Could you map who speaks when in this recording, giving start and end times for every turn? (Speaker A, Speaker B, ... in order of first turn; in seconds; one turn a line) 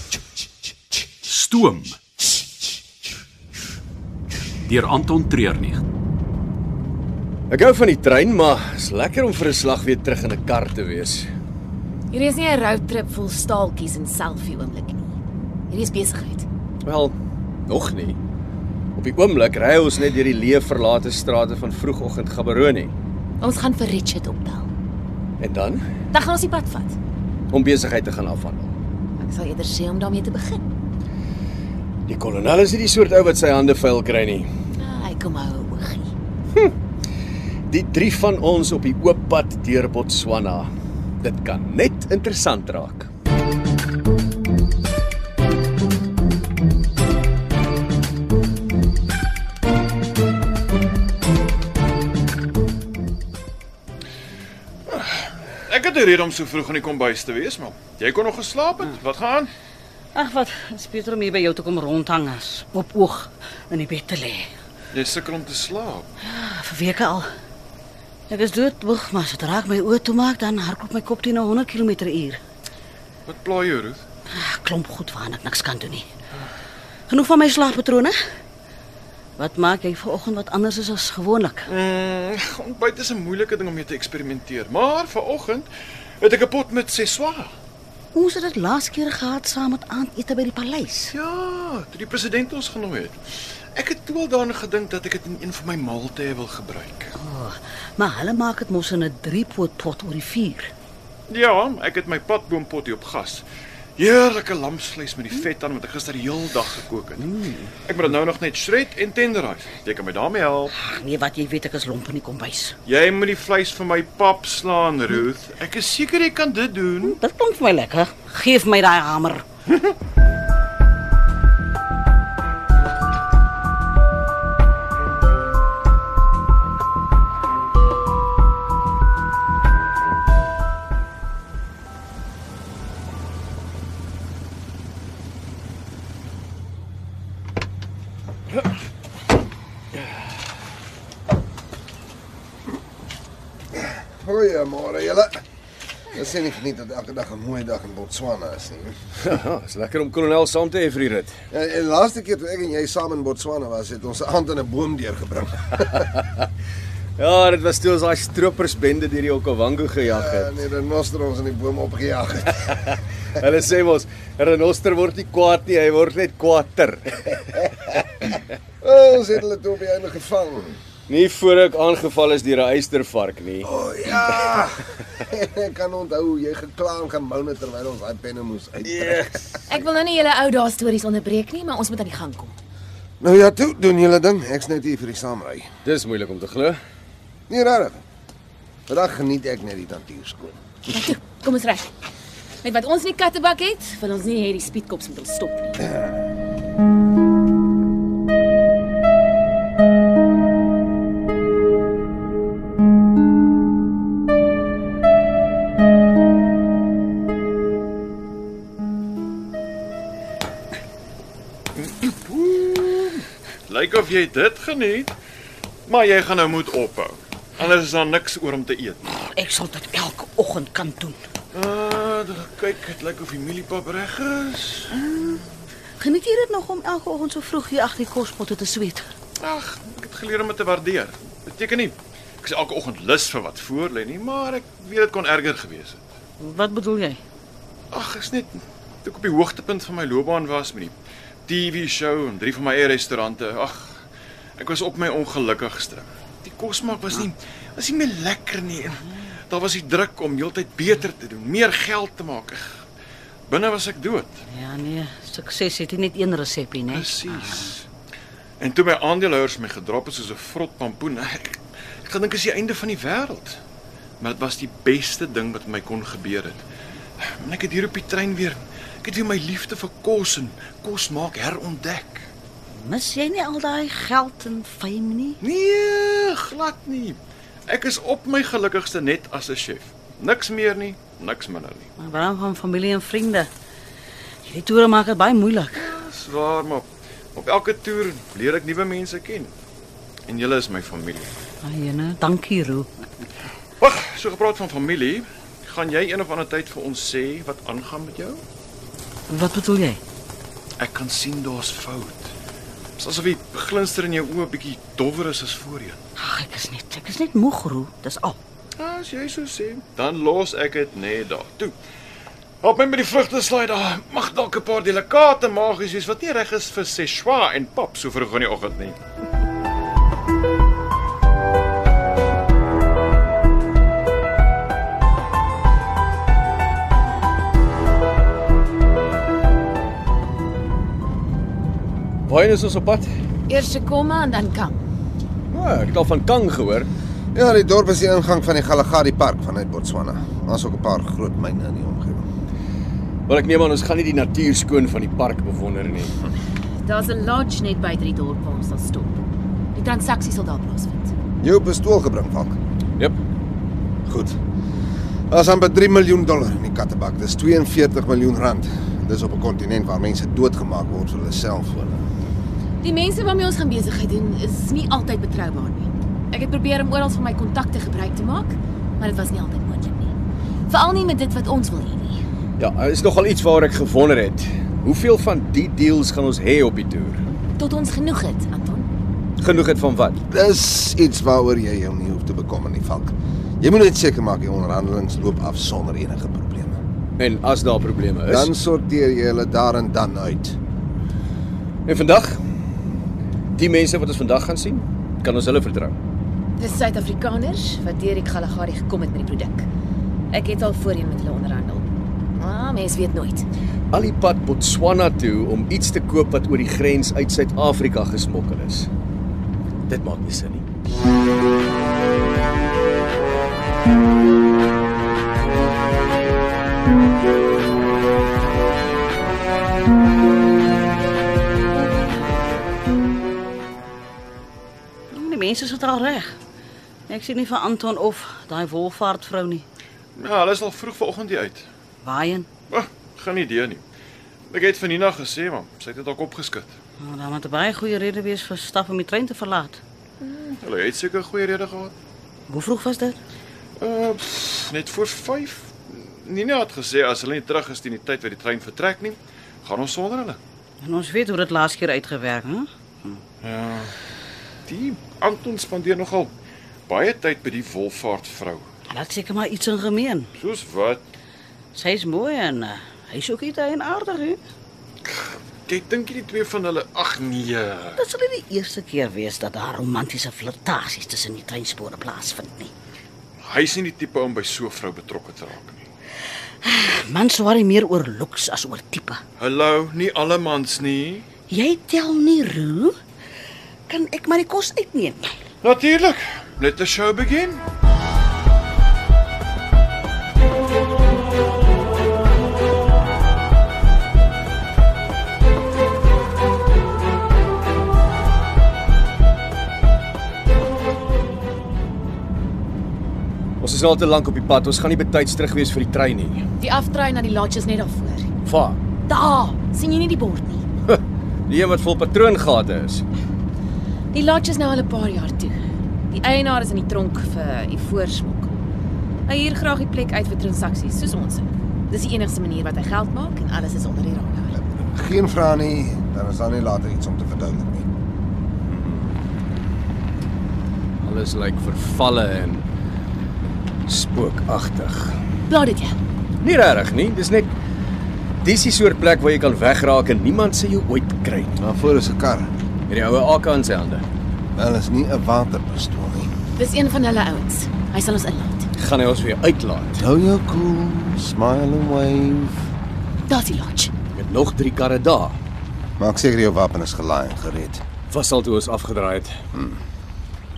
Speaker A: 1.2-2.0
Speaker A: 4.7-5.8
Speaker B: 7.5-11.3
Speaker C: 12.1-15.2
Speaker C: 15.7-16.5
Speaker B: 16.9-17.1
Speaker B: 17.7-18.2
Speaker B: 19.0-22.9
Speaker C: 23.4-24.7
Speaker B: 25.4-25.8
Speaker C: 26.1-27.0
Speaker B: 27.5-28.7
Speaker C: 29.2-30.7
Speaker B: 32.1-34.5
Speaker C: 34.8-36.1
Speaker B: 37.7-40.7
Speaker B: 41.2-43.1
Speaker D: 54.9-59.5
Speaker E: 60.1-64.5
Speaker D: 64.9-66.1
Speaker E: 66.2-67.3
Speaker E: 68.3-72.4
Speaker D: 73.3-74.0
Speaker E: 74.3-76.0
Speaker E: 77.1-78.2
Speaker E: 79.4-81.7
Speaker D: 81.7-85.7
Speaker D: 86.2-87.5
Speaker E: 88.1-91.1
Speaker D: 91.1-93.2
Speaker D: 93.8-97.1
Speaker E: 97.2-100.7
Speaker D: 101.3-103.5
Speaker D: 104.0-107.3
Speaker E: 107.2-107.7
Speaker D: 107.8-110.7
Speaker E: 110.8-112.8
Speaker D: 112.9-117.2
Speaker E: 117.0-119.5
Speaker F: 143.8-145.4
Speaker F: 146.1-149.0
Speaker B: 149.2-151.3
Speaker F: 151.5-156.1
Speaker B: 156.1-156.5
Speaker B: 157.2-160.5
Speaker F: 160.1-162.9
Speaker B: 163.3-167.5
Speaker F: 168.8-170.8
Speaker B: 171.1-173.7
Speaker F: 173.6-179.3
Speaker B: 178.8-179.5
Speaker C: 179.7-182.6
Speaker F: 183.2-185.7
Speaker B: 185.8-186.8
Speaker F: 187.5-188.0
Speaker F: 188.9-190.6
Speaker C: 190.9-191.9
Speaker C: 192.6-195.8
Speaker D: 211.8-215.1
Speaker D: 215.9-219.1
Speaker E: 219.2-221.2
Speaker D: 221.5-225.1
Speaker E: 225.0-225.4
Speaker E: 226.0-229.1
Speaker D: 229.4-236.0
Speaker E: 236.4-237.2
Speaker D: 237.9-240.9
Speaker D: 241.5-244.0
Speaker D: 244.6-252.8
Speaker D: 253.5-254.3
Speaker E: 254.5-257.7
Speaker D: 256.9-257.9
Speaker D: 258.6-263.6
Speaker D: 264.2-266.6
Speaker D: 267.2-272.3
Speaker E: 272.8-275.4
Speaker D: 275.4-281.9
Speaker E: 282.0-283.5
Speaker E: 284.4-285.9
Speaker D: 285.8-289.5
Speaker D: 290.3-291.3
Speaker E: 291.6-293.1
Speaker D: 293.8-298.4
Speaker E: 299.3-300.0
Speaker D: 300.8-302.3
Speaker D: 303.0-306.0
Speaker E: 306.2-308.4
Speaker D: 308.8-311.8
Speaker D: 312.6-319.0
Speaker B: 332.3-333.1
Speaker C: 333.5-334.8
Speaker B: 335.5-336.9
Speaker F: 337.3-342.3
Speaker B: 343.3-346.3
Speaker C: 346.9-349.2
Speaker C: 349.8-351.1
Speaker F: 351.4-352.6
Speaker F: 354.1-354.4
Speaker F: 355.3-362.0
Speaker C: 362.8-370.1
Speaker C: 370.7-372.2
Speaker B: 372.6-377.2
Speaker C: 377.6-378.9
Speaker B: 379.4-380.2
Speaker F: 380.3-386.8
Speaker B: 387.2-388.5
Speaker F: 388.3-390.6
Speaker B: 391.9-392.4
Speaker B: 393.6-395.9
Speaker C: 396.6-399.7
Speaker C: 400.3-403.4
Speaker B: 403.9-408.9
Speaker B: 409.9-410.7
Speaker E: 425.1-426.4
Speaker E: 427.1-429.6
Speaker D: 430.2-431.7
Speaker E: 432.0-432.5
Speaker D: 432.7-433.8
Speaker D: 434.5-436.7
Speaker E: 437.0-439.8
Speaker D: 440.2-441.9
Speaker E: 442.5-443.2
Speaker D: 443.8-450.4
Speaker E: 450.8-453.2
Speaker D: 453.4-453.9
Speaker D: 454.7-456.3
Speaker D: 456.9-458.7
Speaker E: 458.9-460.3
Speaker D: 460.4-461.0
Speaker E: 461.8-464.4
Speaker D: 465.1-468.0
Speaker E: 468.0-472.7
Speaker D: 473.5-475.9
Speaker E: 476.6-479.2
Speaker D: 479.4-481.3
Speaker E: 481.5-482.9
Speaker E: 483.9-485.4
Speaker D: 485.6-487.6
Speaker B: 503.6-506.4
Speaker C: 506.6-508.3
Speaker B: 508.4-508.8
Speaker C: 509.1-510.6
Speaker B: 510.9-513.0
Speaker C: 514.1-518.5
Speaker C: 519.3-524.6
Speaker F: 524.8-527.9
Speaker F: 528.7-529.1
Speaker B: 531.0-532.7
Speaker B: 533.9-535.2
Speaker C: 535.5-536.0
Speaker B: 536.4-537.5
Speaker B: 538.4-541.6
Speaker F: 541.6-542.5
Speaker B: 542.9-544.0
Speaker F: 544.6-546.3
Speaker C: 546.6-548.7
Speaker B: 548.8-550.0
Speaker F: 550.0-552.6
Speaker C: 553.3-553.9
Speaker B: 554.1-555.4
Speaker F: 556.0-557.8
Speaker B: 558.1-559.4
Speaker F: 559.5-559.8